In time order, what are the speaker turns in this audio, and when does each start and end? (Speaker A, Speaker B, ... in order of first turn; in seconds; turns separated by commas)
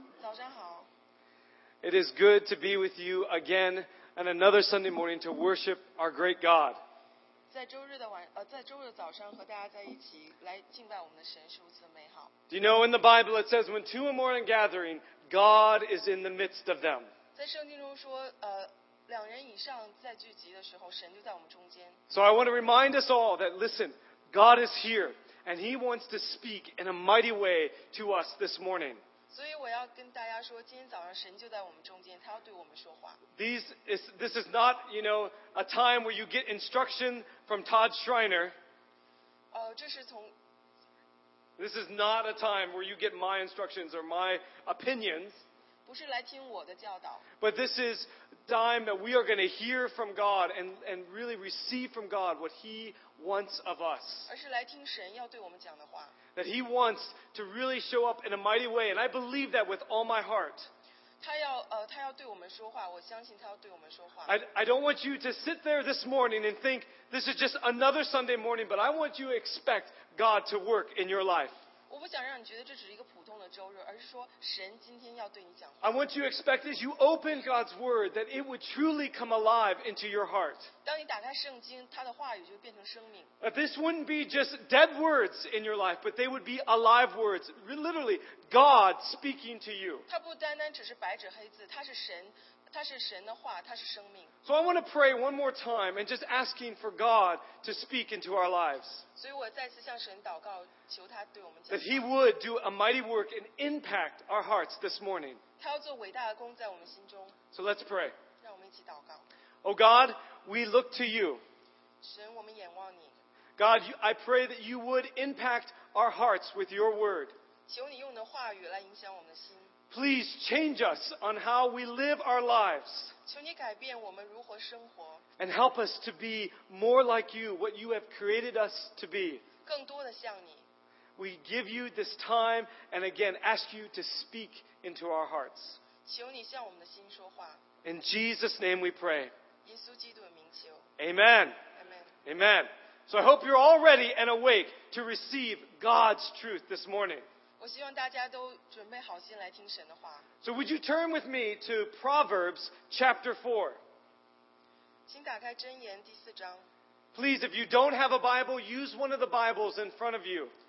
Speaker A: 0.2-0.9, Speaker B: 1.8-6.8, Speaker A: 7.5-12.3, Speaker B: 12.5-17.1, Speaker A: 17.3-22.0, Speaker B: 22.1-29.0, Speaker A: 29.3-33.2, Speaker B: 33.4-38.5, Speaker A: 39.5-40.3, Speaker B: 41.6-45.4, Speaker A: 45.9-47.2, Speaker B: 47.4-54.3, Speaker A: 54.3-56.1, Speaker B: 56.3-60.7, Speaker A: 61.2-64.3, Speaker B: 64.2-71.5, Speaker A: 71.9-76.1, Speaker B: 75.8-80.7, Speaker A: 80.8-83.3, Speaker B: 83.4-90.0, Speaker A: 90.1-94.3, Speaker B: 94.4-99.0, Speaker A: 99.1-102.1, Speaker B: 101.7-105.4, Speaker A: 105.6-107.4, Speaker B: 107.5-108.2, Speaker A: 108.4-109.3, Speaker B: 109.6-111.4, Speaker A: 112.0-113.1, Speaker B: 113.6-117.3, Speaker A: 117.7-119.7, Speaker B: 119.9-123.1, Speaker A: 123.2-125.2, Speaker B: 125.4-129.4, Speaker A: 129.6-130.7, Speaker B: 131.2-135.8, Speaker A: 136.0-137.6, Speaker B: 137.8-139.3, Speaker A: 139.6-140.9, Speaker B: 141.0-141.6, Speaker A: 141.7-142.2, Speaker B: 142.2-147.2, Speaker A: 147.6-150.3, Speaker B: 150.4-153.8, Speaker A: 155.1-156.7, Speaker B: 157.1-160.5